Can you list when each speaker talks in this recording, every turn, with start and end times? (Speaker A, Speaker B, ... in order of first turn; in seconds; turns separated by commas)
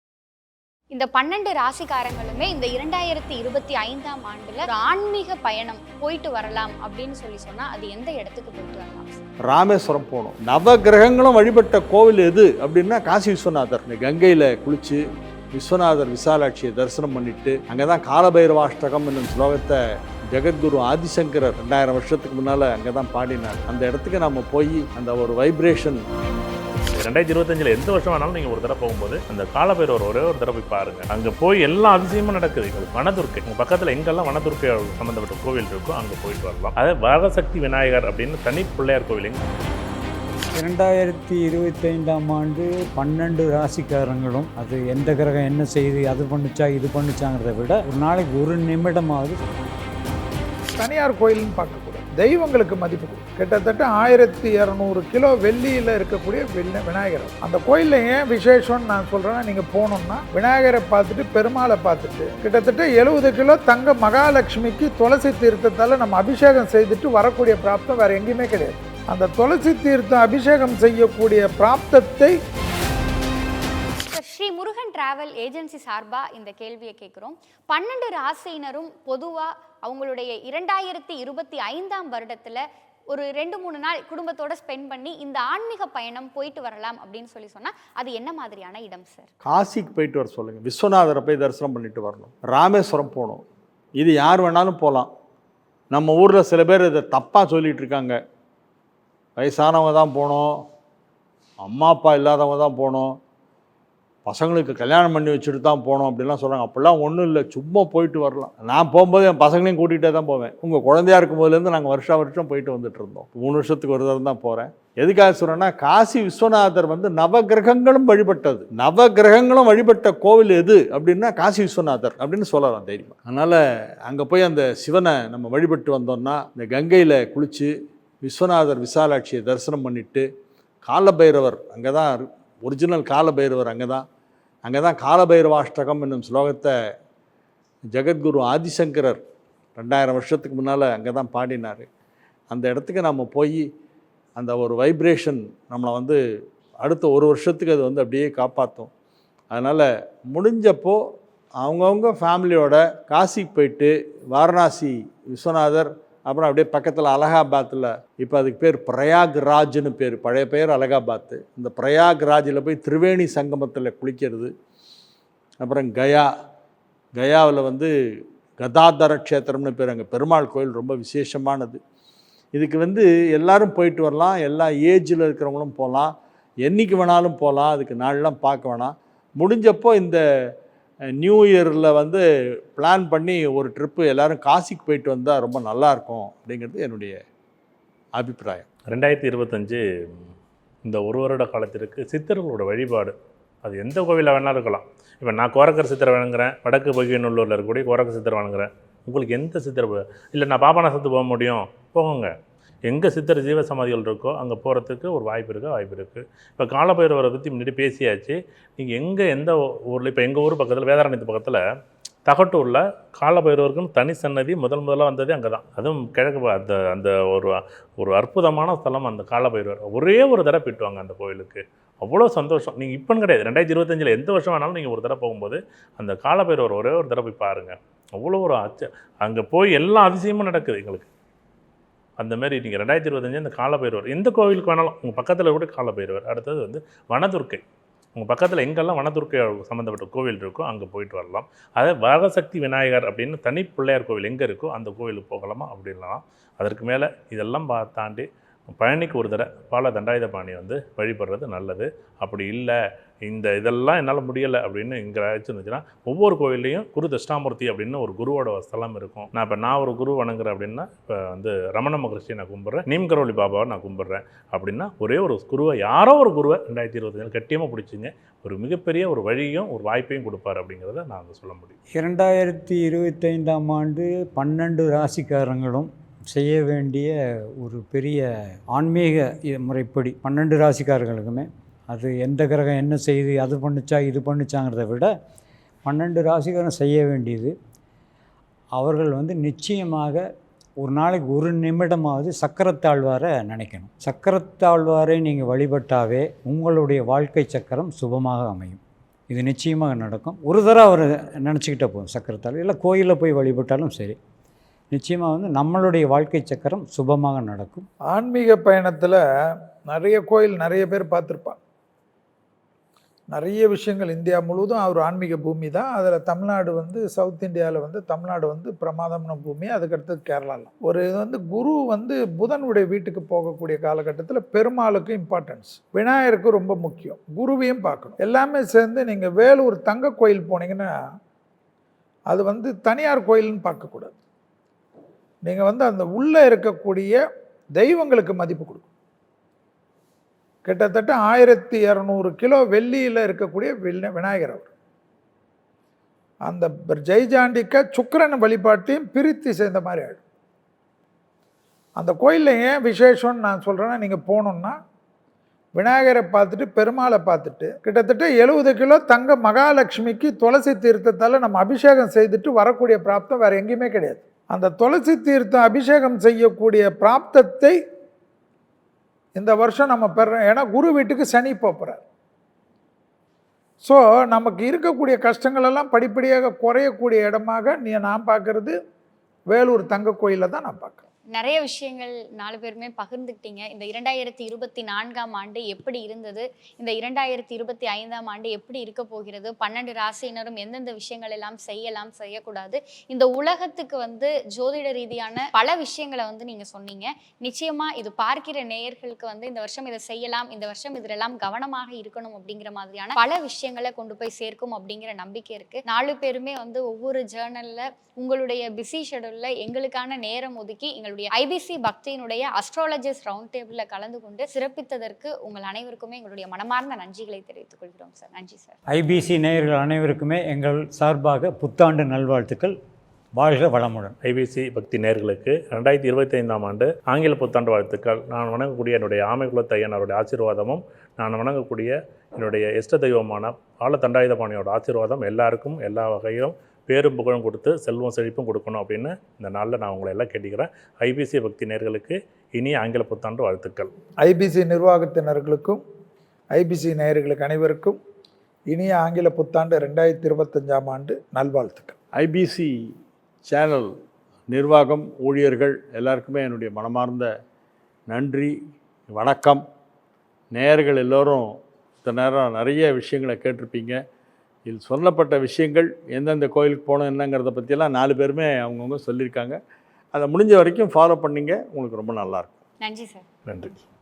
Speaker A: 0.9-9.2, Speaker B: 9.5-15.0, Speaker B: 15.5-19.8, Speaker B: 20.3-26.0, Speaker C: 26.9-39.4, Speaker D: 40.5-49.4, Speaker E: 50.8-72.3, Speaker A: 74.0-89.3, Speaker B: 89.4-93.4, Speaker B: 94.0-95.1, Speaker B: 95.9-98.2, Speaker B: 99.4-100.5, Speaker B: 101.6-103.1, Speaker B: 104.2-127.7, Speaker B: 128.2-130.2, Speaker B: 130.8-134.0, Speaker B: 134.6-136.7, Speaker B: 137.9-139.2, Speaker B: 139.8-141.9, Speaker B: 142.5-143.6, Speaker B: 144.3-146.2, Speaker B: 146.8-148.9, Speaker B: 149.5-151.0, Speaker B: 151.6-164.5, Speaker B: 165.6-166.3, Speaker B: 167.1-167.9, Speaker B: 168.6-171.8, Speaker B: 172.5-176.1, Speaker B: 176.6-180.2, Speaker B: 181.2-182.2, Speaker B: 182.8-187.2, Speaker B: 188.1-188.7, Speaker C: 188.9-190.2, Speaker C: 190.8-202.3, Speaker C: 202.9-211.6, Speaker C: 212.2-231.1, Speaker C: 232.2-237.6, Speaker C: 238.2-271.8, Speaker D: 271.9-285.1, Speaker D: 285.9-287.5, Speaker D: 288.8-290.3, Speaker D: 290.8-304.2, Speaker D: 304.9-307.9, Speaker E: 308.1-309.2, Speaker E: 309.9-311.6, Speaker E: 313.3-330.9, Speaker E: 332.3-334.1, Speaker E: 335.4-337.2, Speaker E: 337.7-338.9, Speaker E: 340.6-344.7, Speaker E: 346.4-350.2, Speaker E: 351.9-354.8, Speaker E: 355.7-367.8, Speaker E: 369.3-372.0, Speaker E: 373.8-378.8, Speaker E: 379.5-381.0, Speaker A: 381.3-418.8, Speaker D: 418.9-422.8, Speaker D: 423.3-424.1, Speaker C: 424.2-443.9, Speaker E: 444.2-445.8, Speaker E: 446.5-448.0, Speaker E: 448.7-451.9, Speaker B: 452.1-452.7, Speaker B: 453.4-453.9, Speaker B: 454.5-457.3, Speaker B: 458.1-458.5, Speaker B: 459.1-459.6, Speaker B: 460.5-461.4, Speaker B: 462.0-464.0, Speaker B: 464.6-469.6, Speaker B: 470.1-472.6, Speaker A: 472.8-473.2, Speaker C: 473.4-473.8